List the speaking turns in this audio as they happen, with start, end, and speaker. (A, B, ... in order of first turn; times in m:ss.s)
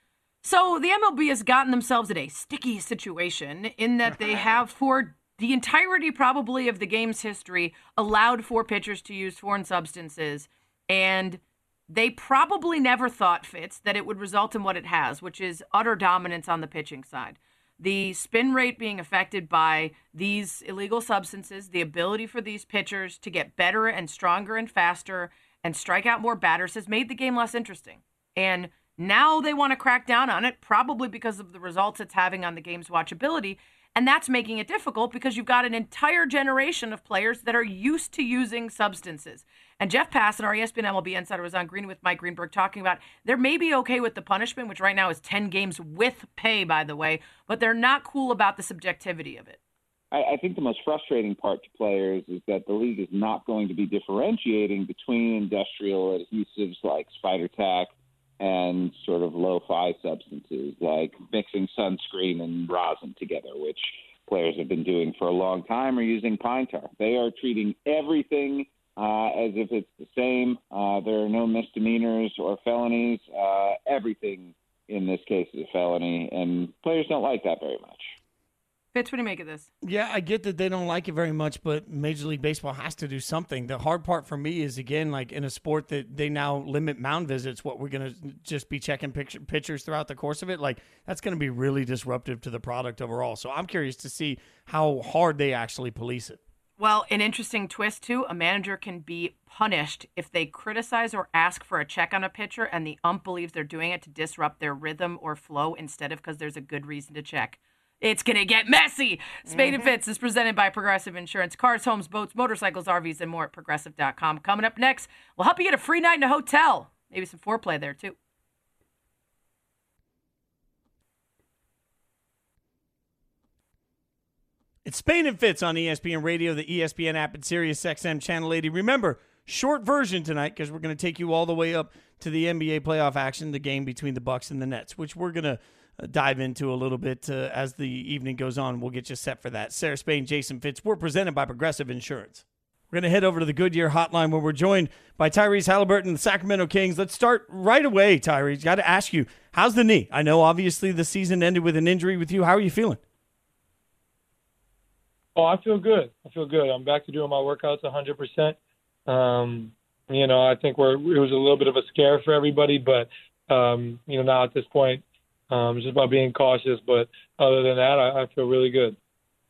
0:00.4-0:49.6 A
0:50.1-1:18.1 B
1:18.9-1:19.7 A
1:19.8-1:36.4 C
1:36.8-1:58.2 A
1:49.4-1:49.9 C
2:04.8-2:33.0 C
2:35.4-2:38.6 D
2:39.1-2:49.0 D